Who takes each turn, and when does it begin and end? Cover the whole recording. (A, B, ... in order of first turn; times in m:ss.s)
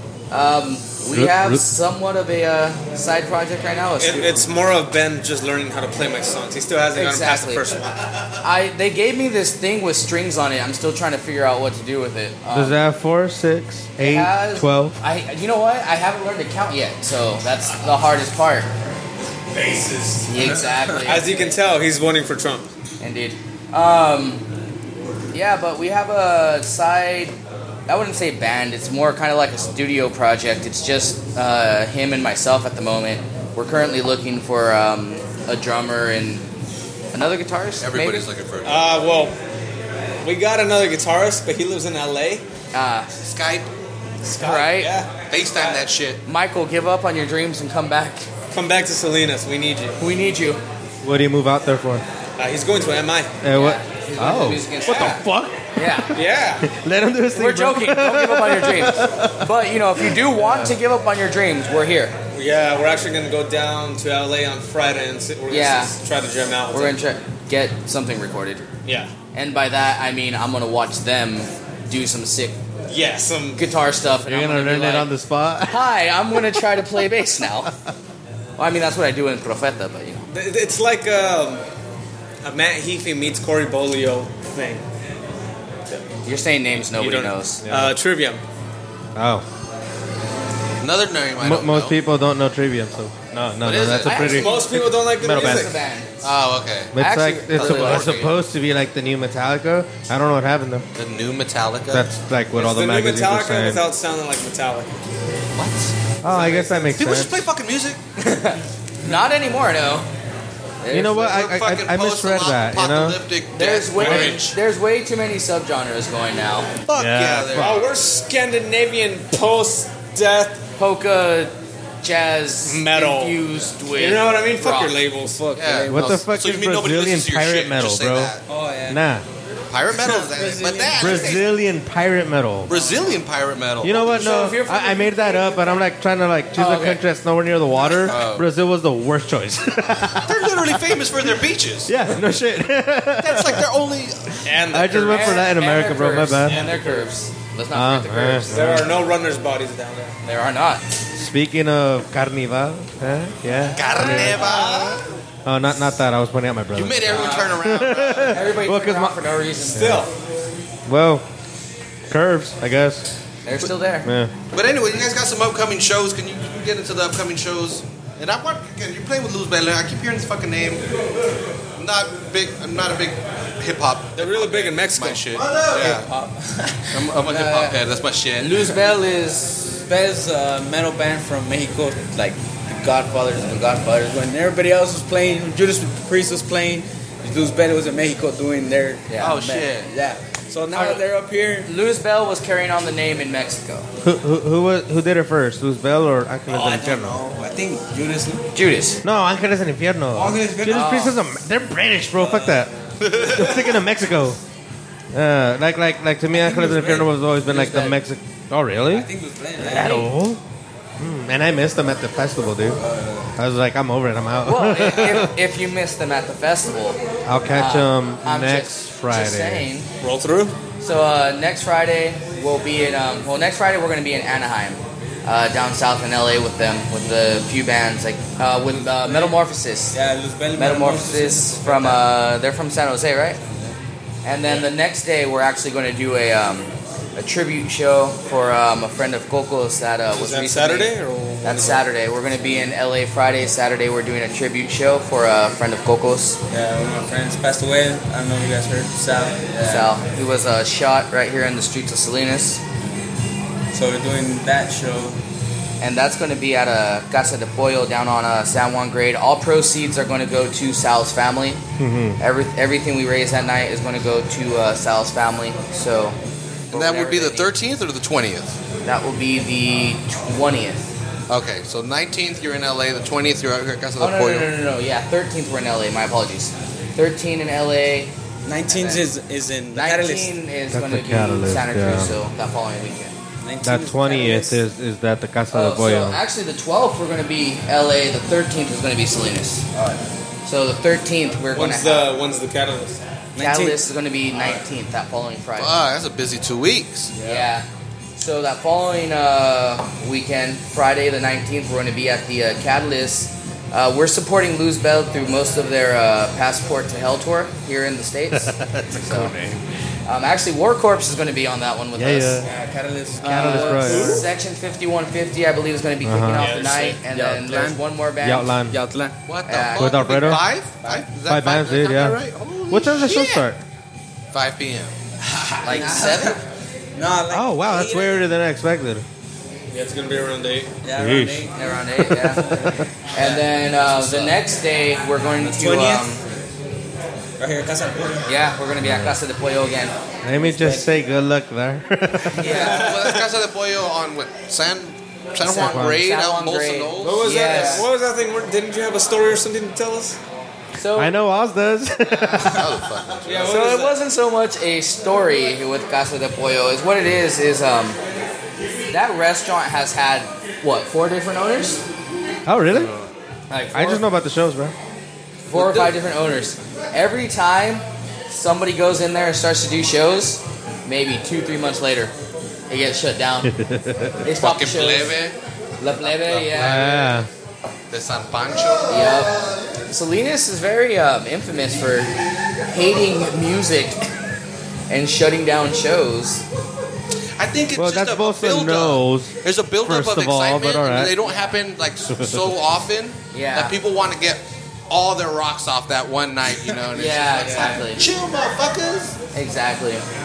0:00.3-0:04.4 A
0:01.1-0:01.6 B
0:04.0-0:08.0 C
0:06.9-0:07.7 A
0:08.4-0:12.8 A
0:12.5-0:15.0 B
0:14.0-0:18.7 A
0:19.7-0:20.2 C
0:20.3-0:21.6 A
0:21.0-0:22.7 C
0:23.0-0:24.4 A
0:25.3-0:27.4 A
0:27.9-0:36.5 A
0:37.1-0:38.3 A
0:37.8-0:38.9 D
0:38.6-0:39.3 C
0:40.2-0:42.4 C
0:42.7-0:43.1 A
0:43.2-0:43.7 D
0:44.2-0:45.8 C
0:44.2-0:45.0 A
0:45.3-0:46.2 D
0:46.2-0:48.3 A
0:48.5-0:50.0 C
0:50.0-0:50.6 A
0:51.0-0:52.0 B
0:52.4-0:53.4 C
0:53.4-0:55.6 B
0:53.5-0:56.1 A
0:56.1-0:56.7 C
0:56.6-0:59.5 B
0:57.3-1:02.2 A
1:00.0-1:00.7 B
1:02.3-1:07.0 C
1:05.5-1:05.9 A
1:06.7-1:08.7 A
1:08.8-1:09.1 C
1:09.3-1:12.6 A
1:12.9-1:13.6 C
1:13.5-1:15.1 A
1:14.2-1:15.9 B
1:15.6-1:17.7 A
1:18.6-1:20.2 A
1:20.3-1:21.6 C
1:22.4-1:24.8 C
1:26.2-1:27.6 A
1:26.9-1:28.4 C
1:27.6-1:27.9 B
1:29.2-1:29.4 B
1:30.8-1:32.0 D
1:31.4-1:35.7 B
1:33.6-1:34.5 D
1:34.0-1:36.1 A
1:34.2-1:35.7 C
1:36.2-1:36.9 D
1:36.9-1:40.8 B
1:37.0-1:38.2 A
1:37.5-1:38.4 D
1:41.0-1:42.1 D
1:41.9-1:43.8 B
1:42.5-1:44.9 C
1:45.5-1:48.0 D
1:46.2-1:47.4 B
1:46.3-1:46.9 C
1:48.2-1:50.1 A
1:50.8-1:51.4 A
1:50.9-1:53.2 B
1:51.2-1:54.5 D
1:53.5-1:56.7 A
1:54.0-1:54.4 C
1:56.9-1:57.9 D
1:56.9-1:57.8 B
1:57.5-2:00.6 C
2:00.8-2:05.0 A
2:02.6-2:03.4 C
2:03.9-2:05.4 C
2:05.2-2:06.2 E
2:05.5-2:08.4 D
2:05.9-2:08.3 B
2:08.5-2:09.0 E
2:08.9-2:09.2 B
2:09.7-2:11.5 D
2:09.9-2:11.4 E
2:11.0-2:12.7 B
2:12.7-2:14.2 D
2:13.8-2:20.8 B
2:13.9-2:15.8 A
2:16.5-2:17.0 A
2:17.7-2:18.5 D
2:20.1-2:21.9 D
2:21.9-2:23.6 B
2:23.2-2:24.3 D
2:24.4-2:25.5 C
2:24.6-2:26.7 B
2:25.1-2:28.8 A
2:26.4-2:27.1 C
2:27.7-2:28.9 B
2:28.5-2:30.1 C
2:30.2-2:30.8 A
2:31.2-2:34.6 B
2:33.6-2:34.9 A
2:33.7-2:35.0 D
2:34.4-2:35.0 C
2:35.4-2:39.2 B
2:36.7-2:38.5 D
2:37.1-2:37.6 A
2:38.2-2:40.0 A
2:39.7-2:40.1 C
2:39.7-2:40.0 B
2:40.9-2:41.2 B
2:42.1-2:43.1 B
2:43.4-2:44.1 A
2:44.0-2:44.3 B
2:44.5-2:50.8 D
2:51.8-2:56.1 D
2:54.1-2:55.4 C
2:55.6-2:57.8 E
2:56.9-2:58.8 D
2:58.4-2:59.8 A
2:59.8-3:09.1 E
3:09.1-3:09.7 A
3:09.2-3:09.9 D
3:09.8-3:11.7 E
3:10.7-3:11.0 A
3:11.6-3:13.9 A
3:14.0-3:17.2 B
3:16.5-3:18.4 E
3:18.5-3:19.0 A
3:19.0-3:24.4 B
3:20.1-3:21.1 E
3:20.7-3:21.2 A
3:22.2-3:23.6 E
3:25.1-3:29.1 B
3:26.3-3:27.2 E
3:27.4-3:28.0 A
3:28.8-3:30.1 E
3:29.6-3:30.4 B
3:29.8-3:30.0 A
3:31.0-3:32.8 B
3:32.8-3:33.3 E
3:33.4-3:35.3 B
3:34.4-3:37.0 A
3:37.2-3:39.6 B
3:37.5-3:39.9 A
3:40.0-3:40.6 C
3:40.8-3:49.9 A
3:48.7-3:49.4 E
3:49.9-3:52.1 E
3:50.5-3:53.4 A
3:54.2-4:06.4 A
4:00.1-4:01.8 C
4:06.5-4:09.9 E
4:09.6-4:12.6 A
4:13.7-4:15.2 E
4:15.8-4:21.6 A
4:21.8-4:22.2 B
4:22.2-4:26.2 A
4:26.7-4:27.5 A
4:26.7-4:28.6 D
4:28.8-4:30.9 A
4:31.3-4:34.5 D
4:34.0-4:38.1 A
4:38.4-4:40.3 E
4:38.7-4:39.1 A
4:39.7-4:43.2 A
4:40.7-4:42.1 B
4:43.4-4:44.6 E
4:43.6-4:46.2 B
4:45.5-4:49.6 A
4:49.7-4:50.0 E
4:50.4-4:52.1 A
4:51.5-4:53.0 C
4:53.3-4:53.8 E
4:53.4-4:55.7 A
4:55.6-4:57.1 D
4:57.1-4:57.5 E
4:57.2-5:09.3 A
5:08.3-5:09.6 B
5:10.0-5:12.4 A
5:11.9-5:12.5 B
5:12.4-5:14.2 E
5:13.2-5:14.2 B
5:13.2-5:18.5 A
5:13.8-5:14.2 C
5:16.0-5:16.6 B
5:16.3-5:17.0 C
5:17.1-5:17.8 E
5:18.2-5:18.8 B
5:18.7-5:19.1 E
5:19.3-5:23.4 D
5:19.5-5:20.3 A
5:19.8-5:20.5 B
5:20.8-5:21.1 E
5:21.2-5:23.6 B
5:24.3-5:24.9 D
5:25.2-5:26.4 E
5:25.6-5:26.4 A
5:27.0-5:28.3 E
5:27.3-5:29.0 B
5:29.7-5:30.8 C
5:30.8-5:31.6 E
5:30.9-5:32.9 B
5:31.5-5:36.2 A
5:35.4-5:36.1 E
5:37.4-5:38.3 E
5:38.2-5:39.9 A
5:38.8-5:39.2 B
5:40.2-5:42.6 B
5:40.3-5:40.9 E
5:42.3-5:42.9 A
5:42.4-5:42.8 E
5:42.4-5:47.4 D
5:42.5-5:43.2 C
5:45.4-5:47.9 A
5:45.5-5:46.1 B
5:47.0-5:50.2 C
5:47.4-5:47.8 E
5:50.8-5:51.1 A
5:50.9-5:52.9 B
5:52.2-5:53.6 D
5:53.2-5:54.0 C
5:53.4-5:58.0 A
5:58.9-6:01.8 A
6:02.4-6:02.9 B
6:02.7-6:03.1 D
6:03.5-6:04.0 A
6:03.7-6:04.7 B
6:05.5-6:12.1 A
6:12.7-6:13.5 A
6:13.4-6:14.2 B
6:14.2-6:15.1 A
6:14.3-6:15.4 D
6:15.8-6:17.1 A
6:15.9-6:17.0 D
6:16.5-6:17.3 B
6:17.9-6:19.2 D
6:18.9-6:19.3 A
6:19.9-6:22.1 A
6:22.6-6:24.1 A
6:24.9-6:26.4 A
6:27.4-6:39.1 D
6:27.8-6:31.2 B
6:32.0-6:32.6 B
6:33.3-6:33.8 A
6:36.9-6:38.1 A
6:39.3-6:40.0 A